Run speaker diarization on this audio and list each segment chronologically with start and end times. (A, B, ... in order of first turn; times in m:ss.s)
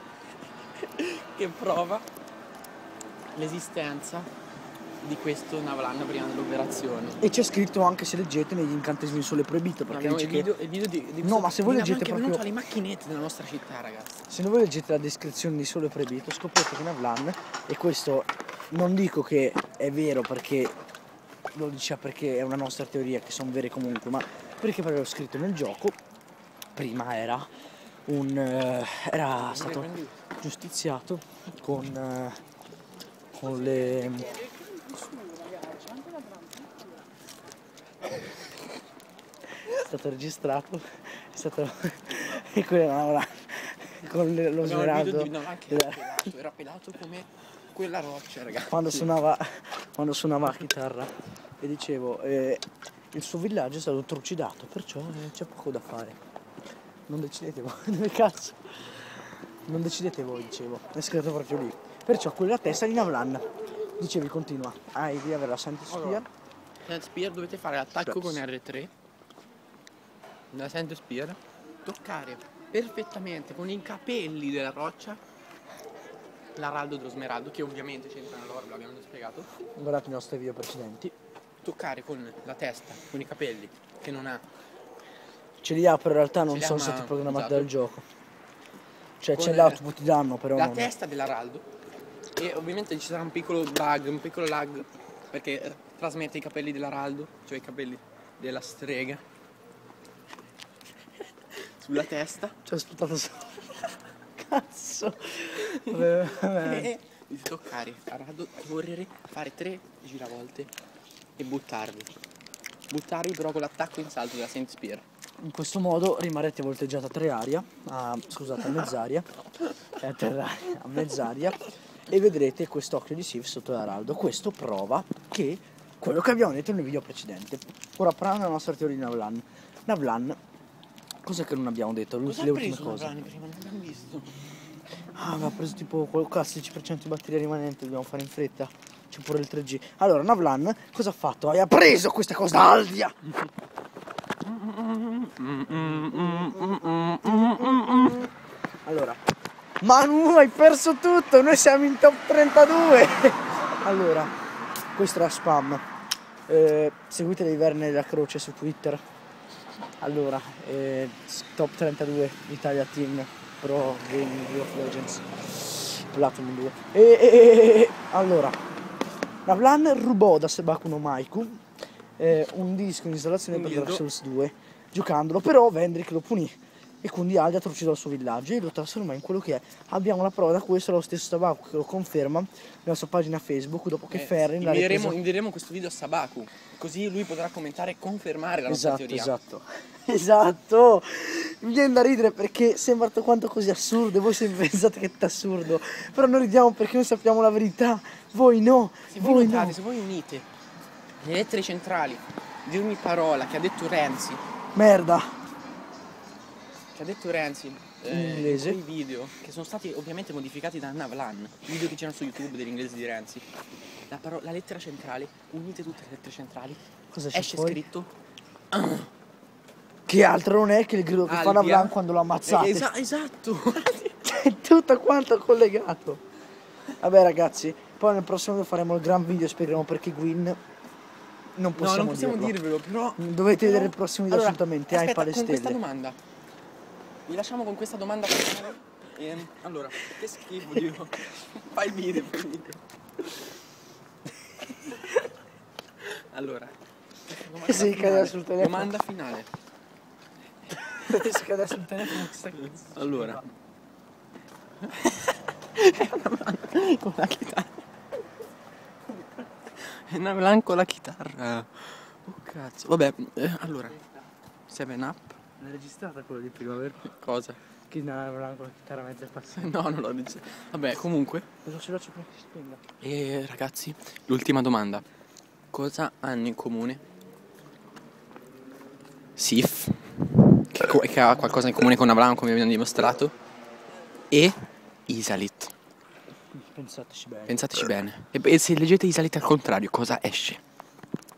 0:00.8-0:02.1 A
0:03.4-0:04.3 A
0:05.0-0:07.2 A
0:07.2-0:10.5 B
0:09.9-0:14.2 A
0:11.2-0:12.4 B
0:14.3-0:20.8 B
0:21.5-0:26.0 B
0:26.8-0:27.5 B
0:28.1-0:32.4 B
0:29.4-0:30.2 A
0:33.4-0:34.4 B
0:39.6-0:46.3 B
0:44.6-0:49.1 A
0:48.7-0:56.2 B
0:57.1-1:03.4 B
1:04.0-1:06.3 B
1:05.9-1:06.2 A
1:06.9-1:08.9 A
1:08.0-1:08.4 B
1:10.5-1:15.2 A
1:16.6-1:19.5 A
1:19.8-1:21.1 B
1:21.6-1:24.5 A
1:25.6-1:28.0 B
1:26.5-1:27.7 A
1:29.2-1:30.9 B
1:29.4-1:29.8 A
1:30.6-1:31.7 A
1:32.4-1:39.2 A
1:41.5-1:42.6 A
1:42.6-1:46.9 B
1:45.8-1:50.7 A
1:51.4-1:52.1 A
1:52.9-1:55.0 A
1:55.4-1:59.3 B
2:00.0-2:10.4 B
2:11.2-2:13.1 B
2:12.3-2:14.3 A
2:15.2-2:23.2 B
2:24.5-2:28.3 A
2:25.8-2:28.3 B
2:28.8-2:29.2 B
2:29.8-2:34.3 B
2:35.0-2:35.8 B
2:36.5-2:39.0 B
2:40.0-2:48.6 B
2:49.4-2:51.6 B
2:52.2-3:05.2 B
2:53.5-2:54.0 A
3:04.1-3:09.3 A
3:08.7-3:19.8 B
3:19.1-3:20.5 A
3:21.2-3:24.4 A
3:24.8-3:25.3 B
3:27.0-3:33.4 A
3:28.1-3:28.8 B
3:34.1-3:38.1 A
3:37.1-3:37.8 B
3:38.7-3:39.1 A
3:40.1-3:42.9 B
3:41.2-3:44.2 A
3:44.2-3:46.2 B
3:47.0-3:50.6 B
3:51.6-3:52.6 B
3:51.8-3:56.2 A
3:53.2-3:55.8 B
3:57.3-4:02.8 A
4:04.6-4:05.2 B
4:06.0-4:06.7 A
4:07.3-4:09.5 A
4:07.6-4:08.9 B
4:10.8-4:13.4 B
4:11.8-4:13.5 A
4:14.8-4:17.8 A
4:19.7-4:24.0 A
4:24.7-4:25.4 A
4:25.6-4:27.1 B
4:27.0-4:27.6 A
4:27.9-4:29.8 B
4:29.5-4:31.5 A
4:31.6-4:32.8 B
4:33.0-4:35.0 A
4:35.7-4:37.0 A
4:39.4-4:43.3 A
4:44.3-4:44.6 A
4:45.1-4:45.7 A
4:46.5-4:47.6 B
4:47.5-4:50.6 A